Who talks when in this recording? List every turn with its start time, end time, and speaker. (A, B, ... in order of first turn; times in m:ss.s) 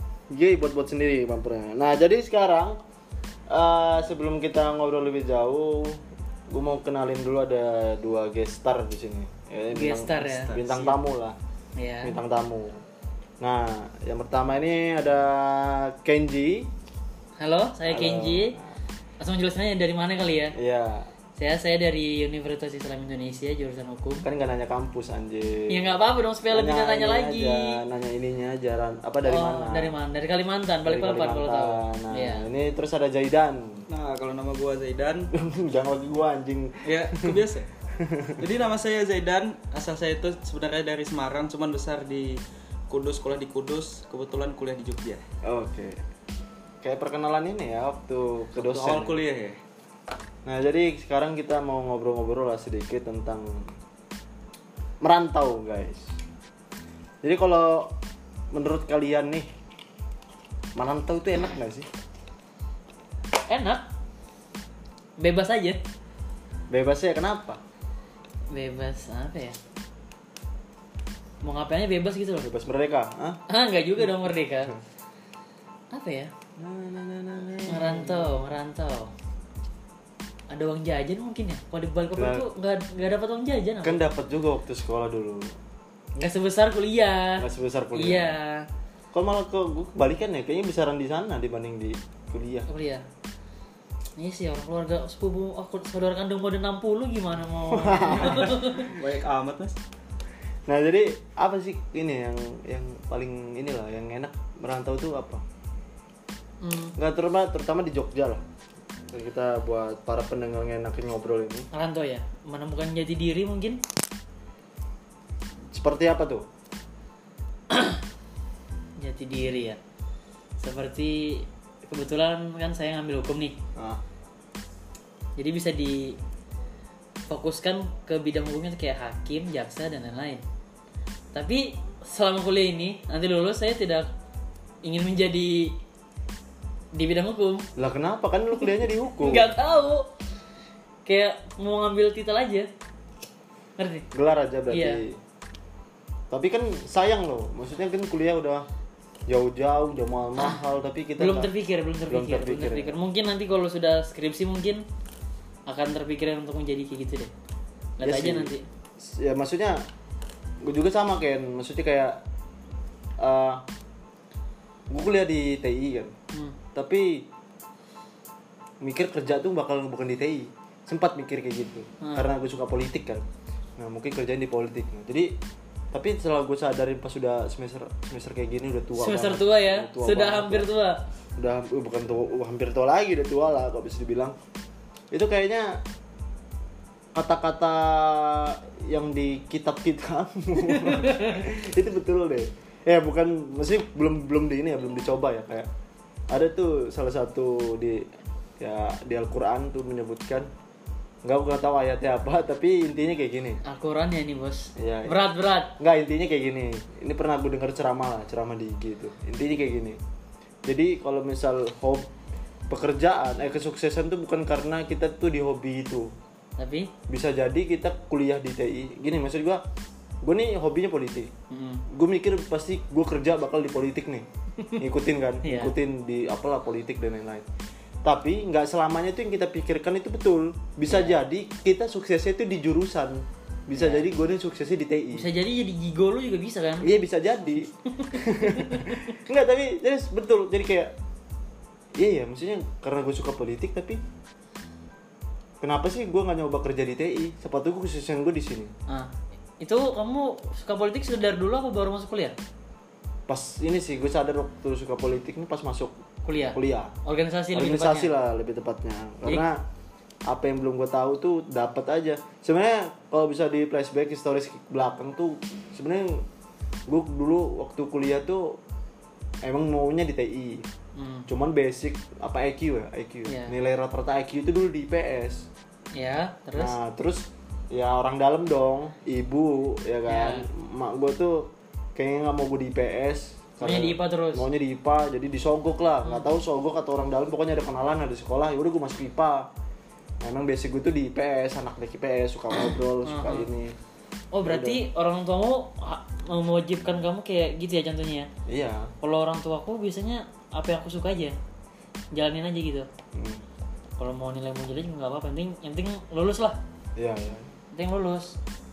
0:00.3-0:02.8 A
0:03.5-0:11.4 A
0:09.7-0:10.5 B
0:10.2-0:11.0 C
0:11.8-0:12.2 B
0:12.0-0:12.8 A
0:13.4-0:16.7 A
0:17.4-0:18.6 B
0:17.9-0:18.7 A
0:19.2-0:20.6 B
0:20.5-0:21.1 A
0:21.4-0:24.3 B
0:24.2-0:25.9 A
0:25.7-0:27.8 B
0:26.5-0:30.0 A
0:29.2-0:32.5 B
0:30.8-0:33.9 A
0:33.9-0:35.3 C
0:35.3-0:38.5 A
0:36.8-0:37.7 C
0:38.4-0:45.2 C
0:45.4-0:46.0 A
0:46.8-0:49.2 A
0:48.6-0:49.6 C
0:50.4-0:53.7 A
0:55.0-0:56.1 A
0:57.2-0:58.0 A
0:58.5-0:59.5 A
1:00.8-1:01.9 A
1:03.5-1:03.9 B
1:05.2-1:05.8 B
1:06.7-1:07.6 A
1:08.5-1:09.6 B
1:11.4-1:12.5 B
1:12.4-1:13.4 A
1:13.5-1:14.8 B
1:15.9-1:16.3 B
1:16.6-1:18.5 A
1:17.7-1:19.1 B
1:20.5-1:24.0 B
1:22.2-1:22.5 A
1:23.8-1:25.6 A
1:26.2-1:28.7 B
1:27.4-1:28.4 A
1:29.1-1:32.7 A
1:32.7-1:33.1 B
1:34.2-1:38.9 B
1:37.7-1:38.8 A
1:38.2-1:39.8 C
1:40.7-1:45.4 A
1:46.6-1:47.0 B
1:47.0-1:48.4 A
1:49.1-1:51.7 A
1:51.7-1:53.8 B
1:55.7-1:56.5 A
1:57.7-1:58.0 B
1:59.0-1:59.8 B
2:00.6-2:03.6 B
2:03.8-2:04.0 A
2:05.4-2:06.2 B
2:07.3-2:10.4 B
2:11.3-2:14.1 B
2:14.8-2:15.8 B
2:16.9-2:17.7 B
2:17.8-2:19.5 A
2:19.2-2:20.1 B
2:21.1-2:22.7 B
2:23.8-2:24.1 B
2:24.1-2:25.2 A
2:24.7-2:25.0 B
2:26.3-2:28.7 A
2:29.3-2:31.5 A
2:31.2-2:34.8 B
2:32.1-2:33.0 A
2:35.7-2:37.3 B
2:38.0-2:38.7 B
2:38.0-2:39.8 A
2:40.6-2:42.2 A
2:43.2-2:43.6 A
2:44.9-2:46.1 A
2:46.7-2:47.3 A
2:48.8-2:53.2 A
2:53.8-2:55.4 A
2:55.9-3:00.7 A
2:59.0-3:01.0 B
3:01.4-3:04.4 A
3:05.1-3:05.8 A
3:07.1-3:15.7 A
3:11.1-3:11.3 B
3:16.3-3:20.5 A
3:21.2-3:23.6 A
3:23.6-3:25.8 B
3:24.8-3:30.0 A
3:30.6-3:32.1 A
3:32.7-3:36.1 A
3:36.6-3:36.9 B
3:37.1-3:39.6 A
3:40.2-3:41.3 A
3:41.5-3:41.8 B
3:41.9-3:44.3 A
3:44.8-3:47.4 A
3:45.4-3:45.7 B
3:48.0-3:55.3 A
3:50.9-3:51.2 B
3:53.7-3:54.0 B
3:55.1-3:56.9 B
3:56.8-4:01.0 A
3:57.9-3:59.1 B
4:02.0-4:04.0 A
4:05.6-4:08.7 A
4:08.9-4:12.4 B
4:13.3-4:16.0 A
4:16.2-4:18.1 B
4:16.5-4:17.0 A
4:17.5-4:19.6 A
4:20.3-4:26.2 A
4:26.9-4:28.6 A
4:29.4-4:30.7 A
4:31.0-4:31.3 B
4:31.3-4:35.5 A
4:33.3-4:33.5 B
4:36.0-4:36.8 B
4:36.6-4:49.5 A
4:40.1-4:40.5 B
4:43.6-4:44.5 B
4:50.2-4:53.8 A
4:53.0-4:53.5 B
4:54.3-4:58.3 B
4:54.4-4:54.8 A
4:58.5-4:58.9 A
4:59.0-5:01.4 B
5:02.1-5:02.9 B
5:03.1-5:03.4 A
5:04.0-5:06.6 B
5:07.0-5:07.5 A
5:07.7-5:08.4 B